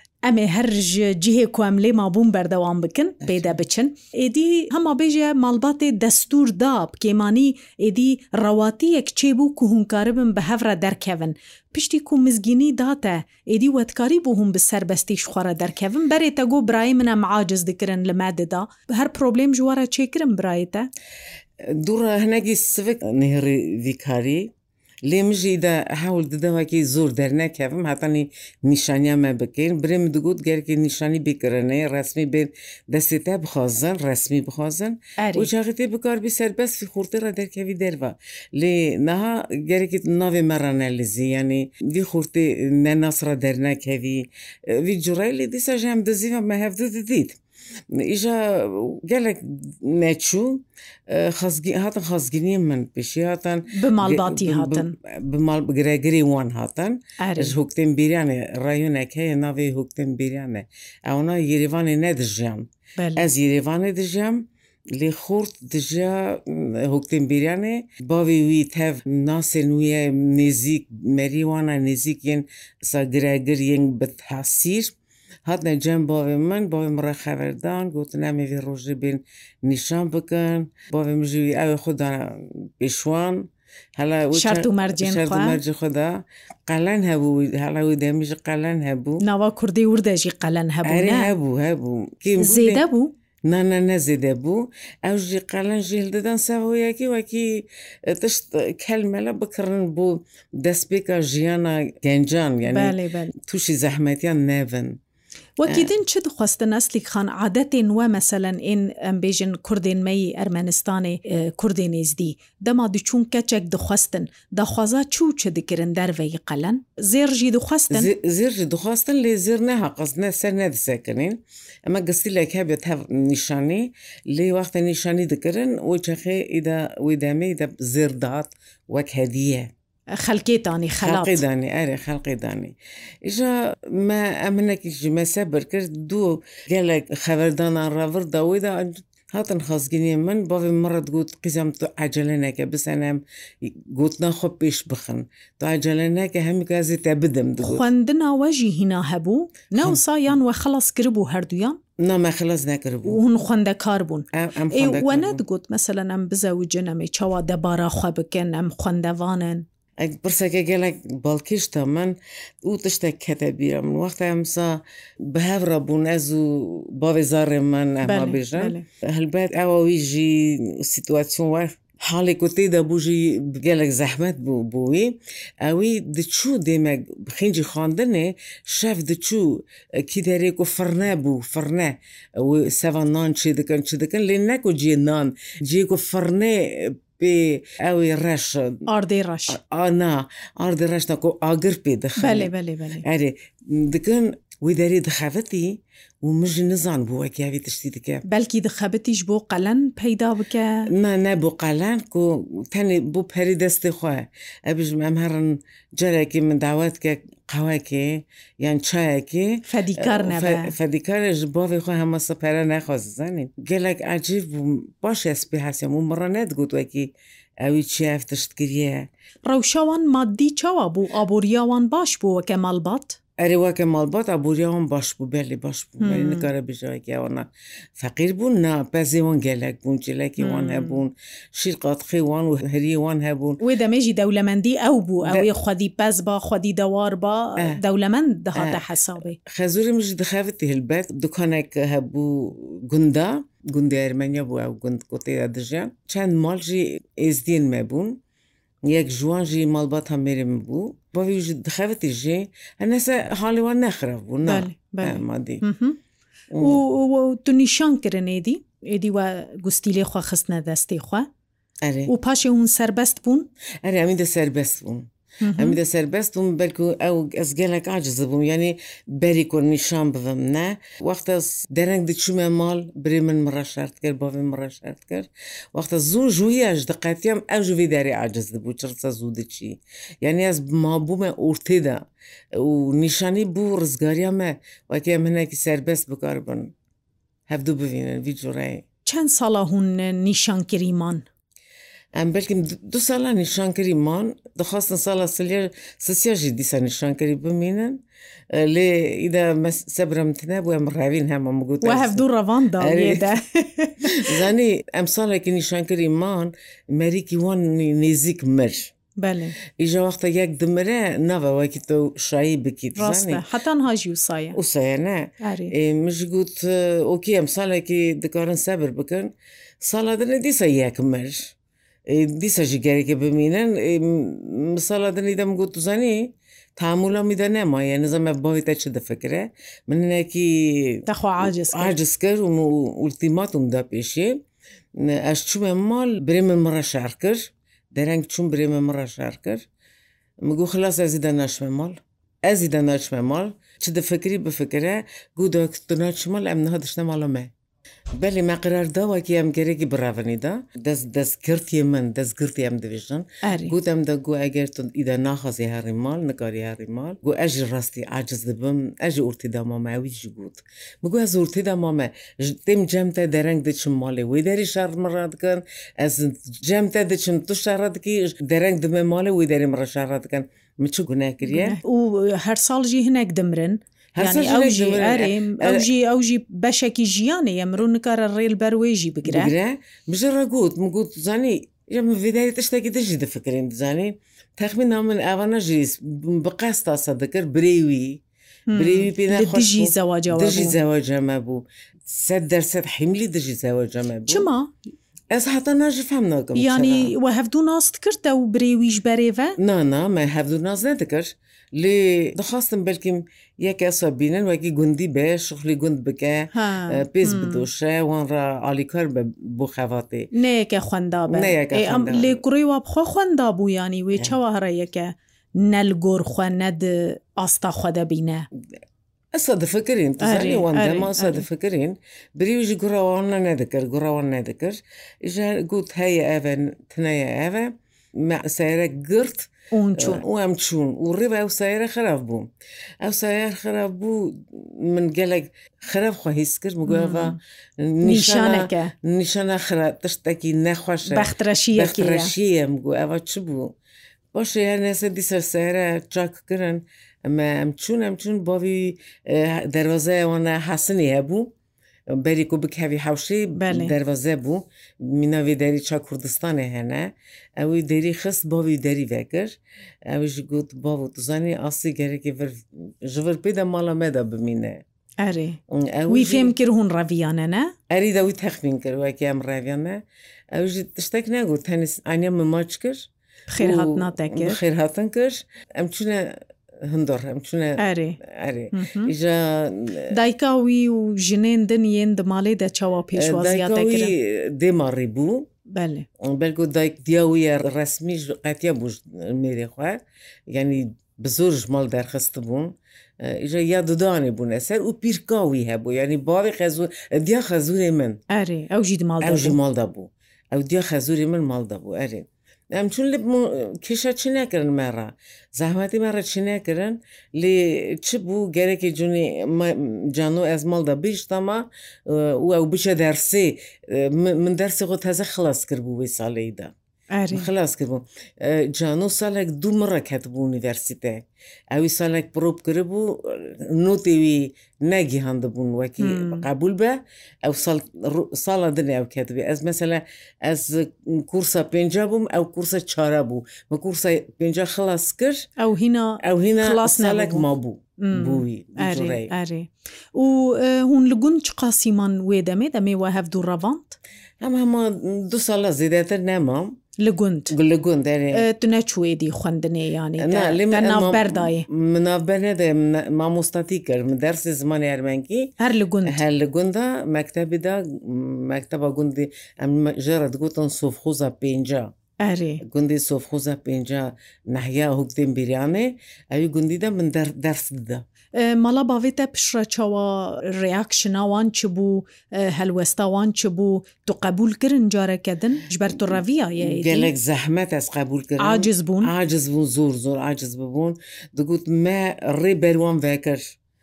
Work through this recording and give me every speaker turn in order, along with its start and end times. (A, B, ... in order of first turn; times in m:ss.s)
0:00.2-0:20.9 A
0:03.2-0:03.5 B
0:21.6-0:24.5 B
0:25.1-0:47.4 B
0:35.2-0:35.5 A
0:47.9-1:15.0 B
0:53.7-0:55.0 A
0:57.2-0:57.6 A
1:03.0-1:03.3 A
1:15.5-1:29.2 B
1:24.3-1:25.6 A
1:29.2-1:31.3 A
1:30.8-1:32.8 B
1:32.4-1:33.1 A
1:33.5-1:45.0 B
1:42.7-1:43.3 A
1:45.6-1:58.1 A
1:45.6-1:45.9 B
1:57.9-2:09.7 B
2:10.1-2:11.4 A
2:11.0-2:27.9 B
2:27.6-2:31.8 A
2:32.0-2:33.2 B
2:33.0-2:39.6 A
2:34.3-2:35.4 B
2:40.0-3:08.8 B
2:48.0-2:48.9 A
3:08.9-3:09.6 A
3:09.5-3:12.5 B
3:12.2-3:13.0 A
3:13.0-3:18.2 B
3:18.2-3:20.9 A
3:20.9-3:39.1 B
3:29.6-3:30.8 A
3:39.5-3:43.2 A
3:43.4-3:47.5 B
3:46.0-3:46.5 A
3:48.0-3:53.6 B
3:50.4-3:51.0 A
3:53.6-3:59.4 A
3:58.6-3:58.8 B
3:59.4-4:08.2 B
4:08.9-4:15.6 B
4:14.5-4:16.0 A
4:16.5-4:16.8 B
4:16.6-4:21.3 A
4:21.8-4:22.1 B
4:22.1-4:23.5 A
4:23.8-4:42.0 B
4:25.4-4:25.8 A
4:42.6-4:46.7 B
4:47.5-4:48.8 B
4:49.0-4:51.2 A
4:52.2-4:58.0 B
4:58.5-5:02.2 B
5:01.8-5:04.4 A
5:02.8-5:03.3 B
5:04.1-5:09.0 B
5:09.2-5:09.6 A
5:09.8-5:13.4 B
5:13.0-5:14.6 A
5:14.5-5:21.6 B
5:15.4-5:15.7 A
5:22.1-5:34.4 B
5:31.1-5:31.9 A
5:35.0-5:39.6 B
5:40.4-5:47.5 B
5:48.2-6:11.8 B
5:53.4-5:53.8 A
6:11.5-6:19.5 A
6:14.2-6:15.9 B
6:19.2-6:28.2 B
6:28.7-6:30.8 A
6:28.7-6:34.5 B
6:34.3-6:34.7 A
6:35.3-6:37.1 B
6:36.6-6:39.6 A
6:39.6-6:50.3 B
6:46.5-6:47.7 A
6:50.3-6:58.5 A
6:51.3-6:52.4 B
6:59.3-7:12.5 B
7:00.2-7:01.4 A
7:09.7-7:10.2 A
7:13.0-7:23.7 B
7:16.9-7:17.4 A
7:18.0-7:18.9 A
7:21.1-7:22.3 A
7:24.3-7:31.5 B
7:32.1-7:44.8 B
7:33.6-7:33.9 A
7:45.2-7:47.7 A
7:45.7-7:46.5 B
7:47.9-7:53.1 B
7:53.5-7:54.6 A
7:53.6-8:00.1 B
7:57.8-7:58.2 A
7:58.7-7:59.1 A
8:00.1-8:04.1 A
8:03.2-8:05.5 B
8:05.7-8:06.1 A
8:06.2-8:18.2 B
8:18.3-8:19.6 A
8:19.2-8:36.7 B
8:37.1-8:37.5 A
8:37.3-8:55.5 B
8:46.0-8:46.5 A
8:55.6-9:04.0 A
8:56.2-8:59.3 B
9:04.4-9:06.8 B
9:07.0-9:07.6 A
9:07.5-9:08.5 B
9:08.3-9:11.7 A
9:10.2-9:15.5 B
9:15.6-9:16.2 A
9:16.0-9:21.9 B
9:22.2-9:22.6 A
9:22.6-9:28.0 B
9:28.4-9:37.1 A
9:36.6-9:43.6 B
9:38.4-9:39.1 A